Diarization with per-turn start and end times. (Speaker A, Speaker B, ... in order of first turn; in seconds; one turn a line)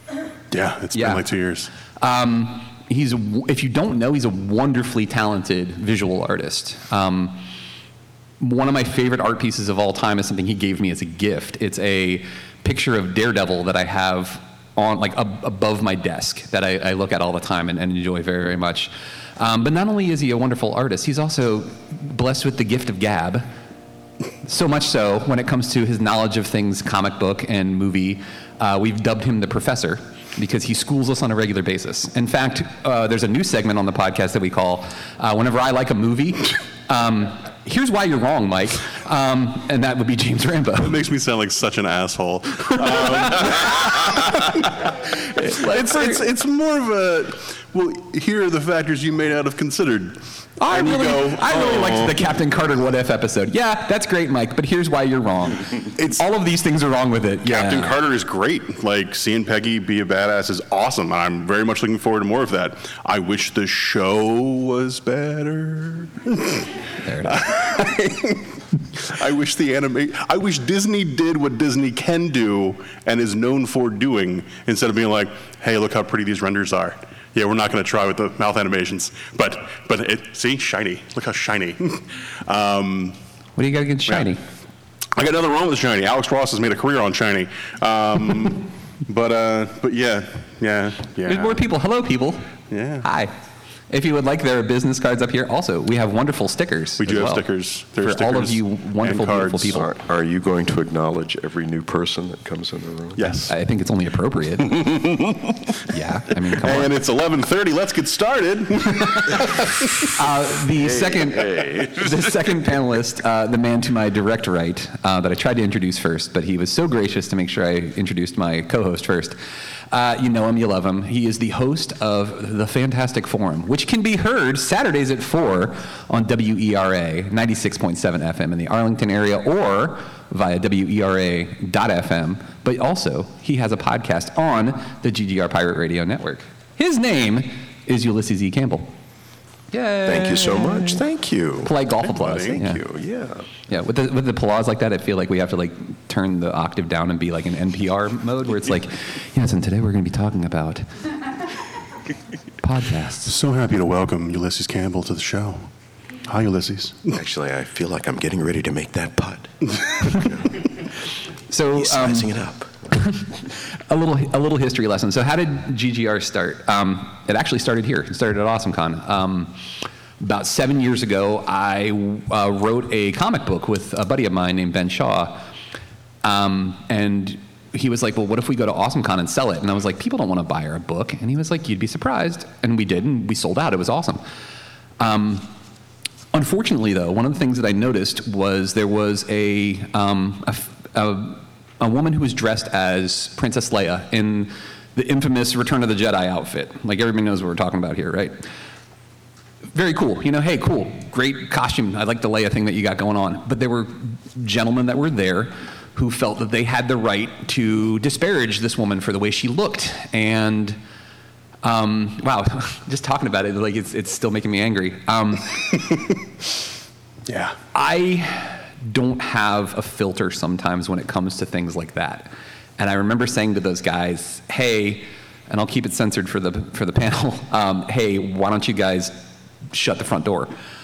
Speaker A: 0.5-1.7
Speaker B: 0.9-1.3
Speaker B: 2.0-7.4
Speaker B: 8.4-23.5
Speaker B: 24.4-41.0
Speaker A: 40.8-52.1
Speaker B: 42.9-46.2
Speaker B: 50.6-58.0
Speaker A: 57.4-83.2
Speaker B: 67.0-67.6
Speaker B: 83.6-84.4
Speaker A: 85.1-91.7
Speaker B: 91.2-92.5
Speaker A: 92.7-93.1
Speaker B: 93.0-93.3
Speaker B: 93.9-97.5
Speaker A: 97.0-99.8
Speaker B: 98.0-99.9
Speaker C: 99.7-103.3
Speaker A: 103.2-103.5
Speaker B: 103.5-104.9
Speaker A: 104.6-105.7
Speaker B: 105.9-106.9
Speaker A: 106.6-110.1
Speaker B: 109.1-109.4
Speaker B: 110.2-119.3
Speaker A: 111.5-111.9
Speaker B: 119.9-138.9
Speaker B: 139.7-141.0
Speaker C: 140.1-141.7
Speaker B: 141.6-142.8
Speaker A: 142.0-142.6
Speaker C: 142.6-143.5
Speaker B: 143.7-150.9
Speaker B: 152.6-153.3
Speaker A: 153.2-155.7
Speaker A: 156.3-157.2
Speaker C: 157.1-160.5
Speaker B: 161.5-162.3
Speaker C: 161.8-162.7
Speaker B: 162.9-169.6
Speaker B: 170.2-175.5
Speaker B: 176.2-184.2
Speaker B: 185.0-185.5
Speaker B: 186.3-198.4
Speaker B: 199.8-210.8
Speaker B: 211.6-215.8
Speaker A: 217.3-217.6
Speaker B: 217.7-229.1
Speaker B: 229.7-230.5